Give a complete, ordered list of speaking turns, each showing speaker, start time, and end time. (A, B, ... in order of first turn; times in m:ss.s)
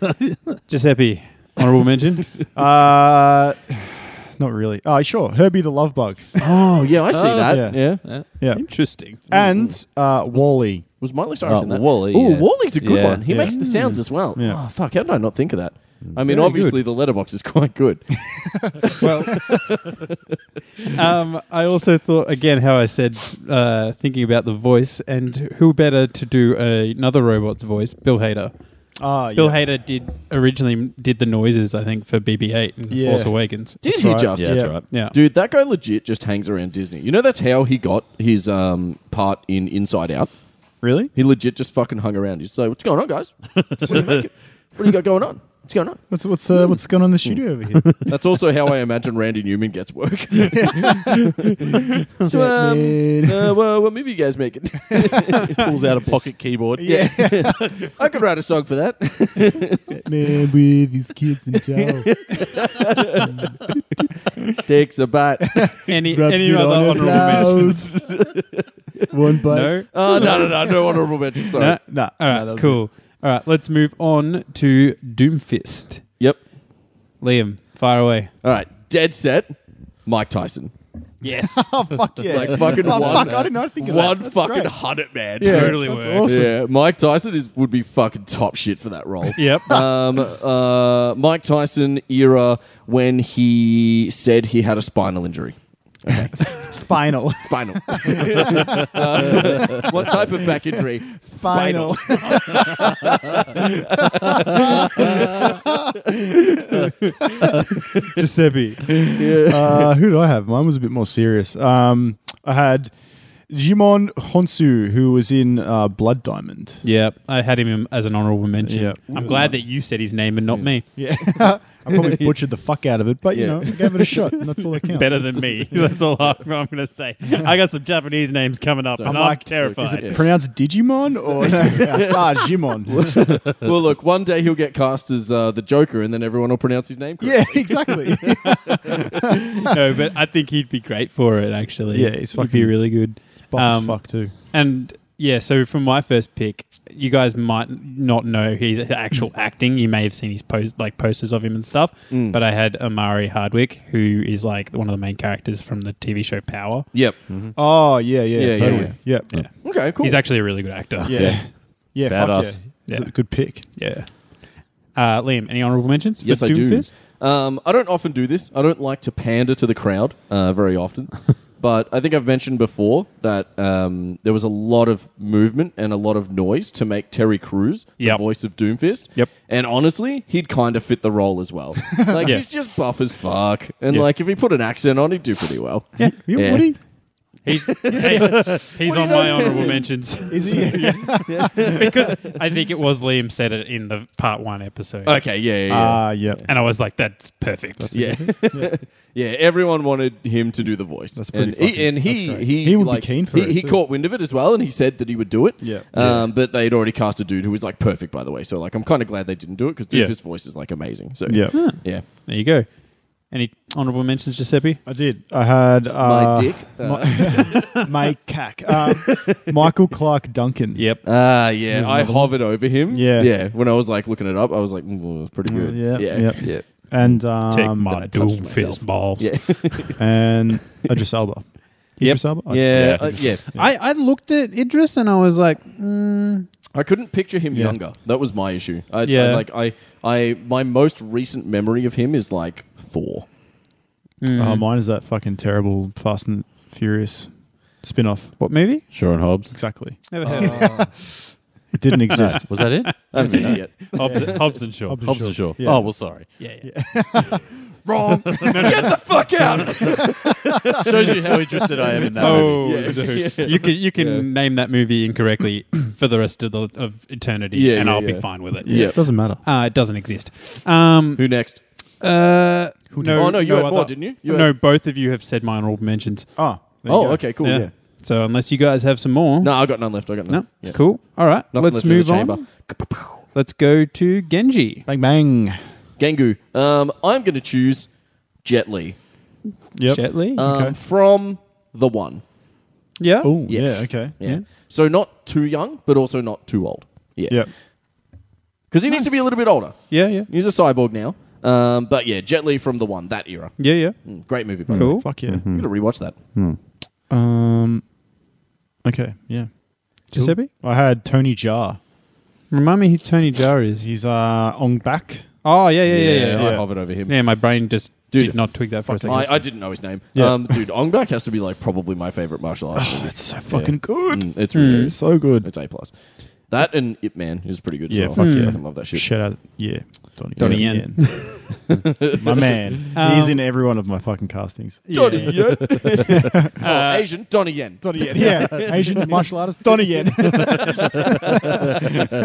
0:00.7-0:02.3 A
0:02.5-0:06.4 B
0:06.4-0:08.0 C
0:07.1-0:08.3 D
0:07.4-0:10.8 B
0:08.5-0:09.2 A
0:09.3-0:09.8 C
0:11.0-0:20.1 C
0:11.4-0:13.2 D
0:13.3-0:14.6 B
0:13.4-0:14.0 A
0:16.2-0:16.8 A
0:19.0-0:19.4 A
0:20.9-0:33.8 A
0:29.0-0:29.7 B
0:32.9-0:34.8 B
0:33.8-0:40.3 C
0:34.4-0:34.8 D
0:34.9-0:35.1 A
0:40.8-0:41.1 B
0:41.1-0:46.0 C
0:43.8-0:44.2 D
0:46.1-0:48.0 B
0:48.0-0:55.7 C
0:50.5-0:51.3 B
0:52.2-0:53.5 B
0:54.9-0:55.4 B
0:55.5-0:57.3 D
0:56.8-0:57.9 B
0:56.8-1:00.0 C
0:59.9-1:02.2 B
1:01.7-1:03.3 C
1:03.1-1:03.6 B
1:04.6-1:05.8 C
1:05.5-1:07.9 B
1:05.9-1:07.9 A
1:07.0-1:09.1 C
1:09.1-1:10.7 B
1:09.5-1:09.9 A
1:09.9-1:11.8 C
1:11.6-1:16.0 A
1:11.8-1:12.8 B
1:17.2-1:18.3 A
1:18.4-1:20.7 C
1:21.2-1:21.7 A
1:21.2-1:24.8 B
1:22.2-1:36.7 C
1:25.4-1:26.5 B
1:25.4-1:26.5 A
1:29.4-1:29.9 A
1:36.4-1:47.5 B
1:37.4-1:45.5 C
1:48.2-1:49.0 A
1:48.9-1:56.8 B
1:49.2-1:49.9 C
1:56.8-2:00.9 A
1:58.6-1:59.6 B
1:59.1-1:59.6 C
2:00.5-2:01.2 C
2:01.0-2:05.9 B
2:01.8-2:02.4 C
2:03.3-2:04.3 C
2:04.9-2:10.1 A
2:09.0-2:10.3 C
2:09.0-2:13.3 B
2:11.5-2:19.0 C
2:17.2-2:19.0 B
2:19.6-2:36.9 A
2:21.9-2:24.3 B
2:32.1-2:32.4 C
2:36.9-2:37.2 C
2:37.3-2:37.5 D
2:37.5-2:39.3 B
2:38.4-2:40.3 C
2:38.6-2:39.5 D
2:39.3-2:41.2 A
2:41.0-2:43.6 B
2:41.2-2:42.6 D
2:42.9-2:46.9 A
2:46.2-3:06.7 C
2:58.0-2:58.2 A
3:06.0-3:06.8 B
3:07.4-3:15.2 A
3:07.8-3:12.4 C
3:07.9-3:08.5 B
3:10.3-3:11.6 B
3:15.0-3:16.5 C
3:15.7-3:16.5 B
3:16.5-3:18.3 A
3:17.8-3:18.8 B
3:17.9-3:32.0 C
3:21.1-3:23.8 B
3:25.6-3:26.3 B
3:31.2-3:31.8 B
3:31.5-3:32.7 A
3:33.2-3:34.8 A
3:34.9-3:40.9 B
3:36.0-3:37.7 C
3:39.1-3:39.4 C
3:40.8-3:41.0 A
3:41.0-3:46.8 C
3:41.7-3:43.3 B
3:45.4-3:48.6 B
3:46.4-3:46.8 A
3:47.5-3:49.8 A
3:48.1-3:50.0 C
3:50.0-3:53.7 B
3:52.0-3:52.2 A
3:52.5-3:53.4 C
3:53.5-3:56.5 A
3:56.7-4:03.2 C
3:57.5-3:57.8 B
3:59.0-3:59.4 A
4:04.2-4:04.6 A
4:04.4-4:08.4 B
4:08.4-4:08.8 A
4:08.9-4:09.6 D
4:09.5-4:11.2 B
4:10.1-4:11.0 A
4:11.7-4:12.8 B
4:12.1-4:13.6 D
4:12.2-4:15.0 A
4:13.1-4:14.4 C
4:14.0-4:20.1 B
4:15.0-4:16.3 D
4:16.4-4:16.7 A
4:18.3-4:18.9 A
4:18.6-4:24.3 C
4:20.8-4:22.9 D
4:21.0-4:21.9 B
4:22.2-4:31.2 A
4:27.5-4:29.0 C
4:28.6-4:29.4 B
4:31.2-4:31.6 C
4:32.0-4:36.3 A
4:32.9-4:33.4 B
4:33.1-4:34.5 C
4:36.4-4:37.2 B
4:36.9-4:37.7 C
4:37.4-4:44.9 A
4:39.4-4:43.0 C
4:44.9-4:45.6 B
4:46.0-4:49.0 C
4:49.7-4:50.8 B
4:49.9-4:50.4 A
4:50.4-4:52.2 C
4:53.0-4:53.4 A
4:53.2-4:54.1 B
4:53.5-4:57.5 C
4:58.7-5:06.2 C
4:58.9-5:00.3 A
5:03.6-5:04.0 A
5:04.7-5:05.0 A
5:04.7-5:06.6 D
5:04.7-5:05.5 B
5:07.1-5:07.9 B
5:08.8-5:11.8 B
5:10.1-5:10.5 A
5:12.5-5:13.8 A
5:13.8-5:15.4 B
5:15.4-5:19.4 A
5:15.9-5:17.3 C
5:16.4-5:16.6 B
5:18.1-5:25.9 C
5:18.9-5:19.6 B
5:20.1-5:20.6 B
5:22.7-5:25.5 B
5:24.5-5:24.9 A
5:26.5-5:29.1 C
5:27.9-5:35.2 B
5:28.2-5:28.6 A
5:30.4-5:31.3 A
5:30.4-5:32.5 C
5:32.9-5:33.4 A
5:34.9-5:37.0 A
5:34.9-5:39.1 C
5:36.1-5:36.6 B
5:37.8-5:42.0 B
5:40.4-5:42.0 C